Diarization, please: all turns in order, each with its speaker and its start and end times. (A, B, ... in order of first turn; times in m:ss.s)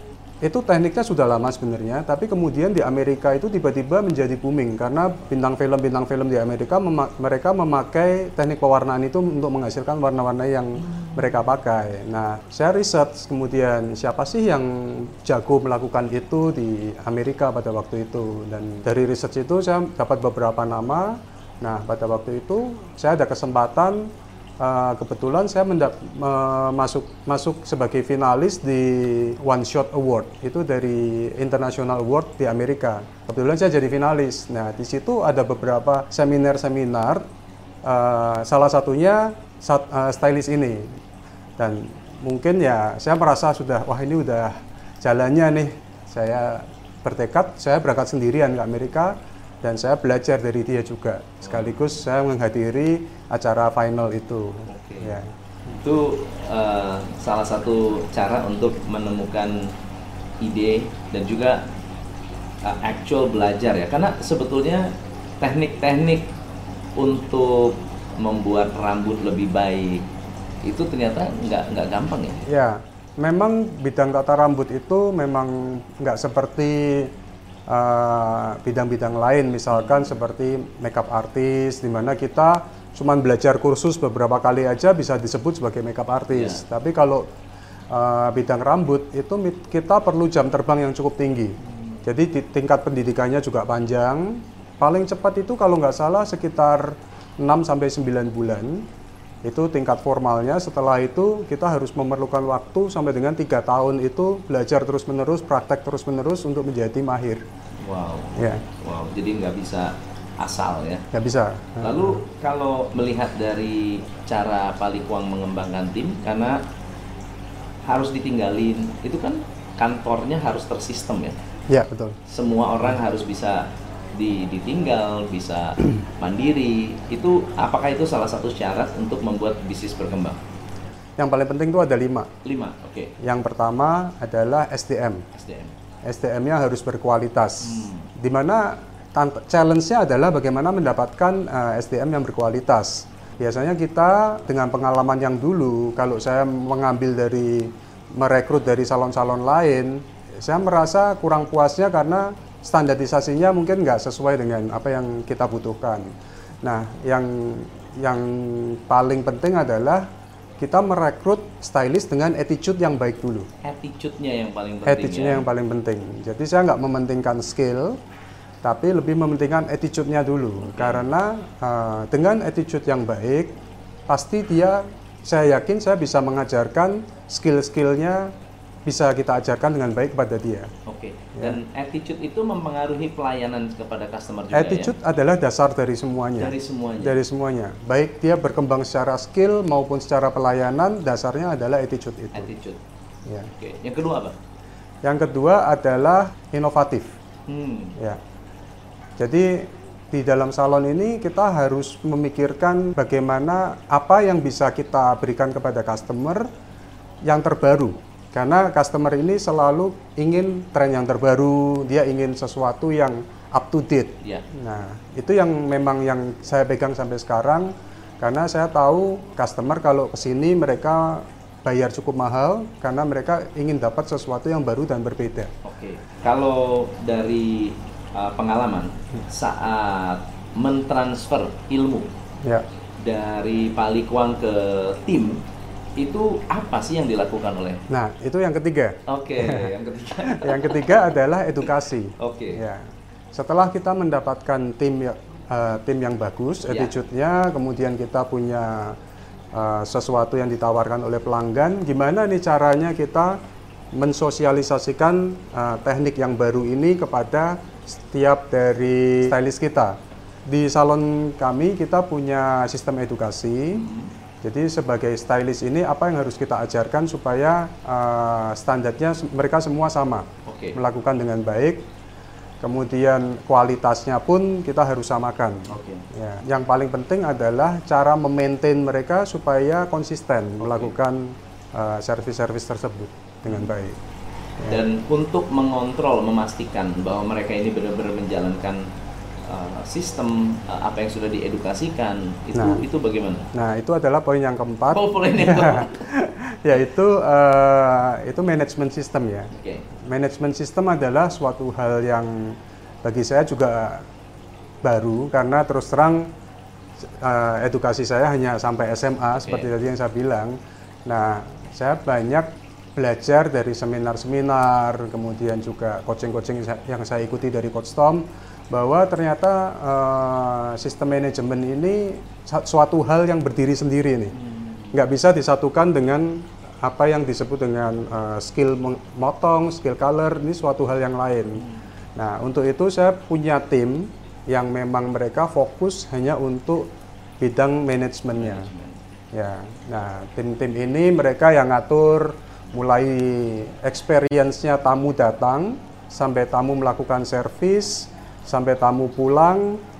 0:00.4-0:37.2 A
0:10.9-0:11.3 B
0:37.8-0:41.0 A
0:41.6-0:55.8 A
0:51.4-0:51.8 B
0:54.7-0:55.2 B
0:55.8-0:59.7 B
1:00.4-1:01.6 B
1:02.6-1:04.9 B
1:05.4-1:06.3 B
1:07.0-1:10.1 B
1:10.6-1:12.4 B
1:12.5-1:17.1 A
1:17.7-1:27.3 A
1:19.7-1:20.2 B
1:26.3-1:26.6 B
1:27.9-1:38.9 A
1:31.6-1:32.1 B
1:39.4-1:47.4 A
1:47.8-1:51.0 B
1:48.4-1:48.6 A
1:51.1-1:52.2 A
1:51.8-1:56.6 B
1:57.9-2:01.4 B
2:01.7-2:02.2 A
2:02.3-2:10.4 B
2:11.2-2:12.3 A
2:12.4-2:13.1 B
2:13.2-2:15.2 A
2:15.3-2:15.8 B
2:16.0-2:36.1 A
2:17.6-2:18.1 B
2:36.6-2:40.1 A
2:40.6-2:43.5 A
2:43.6-2:45.4 B
2:44.9-2:48.0 A
2:48.6-2:53.5 A
2:50.6-2:51.0 B
2:54.1-2:58.3 A
2:58.9-3:00.7 A
3:00.9-3:05.0 B
3:04.5-3:12.5 A
3:06.4-3:07.2 B
3:12.4-3:12.8 B
3:13.6-3:14.4 B
3:15.0-3:17.1 A
3:17.5-3:18.0 B
3:19.2-3:26.5 A
3:27.3-3:45.5 A
3:45.6-3:52.1 B
3:53.0-3:55.4 B
3:56.0-3:57.8 B
3:57.9-3:59.7 A
3:59.1-4:01.0 B
4:00.2-4:09.0 A
4:02.2-4:02.6 B
4:06.7-4:06.9 B
4:09.5-4:13.4 A
4:14.0-4:20.0 A
4:20.5-4:23.8 A
4:23.8-4:24.1 B
4:24.4-4:31.8 A
4:30.5-4:30.8 B
4:32.6-4:44.0 A
4:35.7-4:36.0 B
4:40.6-4:41.0 B
4:43.5-4:43.7 B
4:44.7-4:48.8 B
4:49.4-4:53.5 B
4:52.5-4:52.8 A
4:53.5-4:59.5 A
4:54.9-4:56.0 B
4:59.5-4:59.8 B
5:00.1-5:04.0 A
5:04.8-5:06.3 A
5:07.0-5:24.4 A
5:09.4-5:09.7 B
5:24.3-5:25.0 B
5:24.9-5:31.6 A
5:31.6-5:31.9 B
5:32.2-5:38.7 A
5:38.4-5:39.0 B
5:39.3-5:49.8 A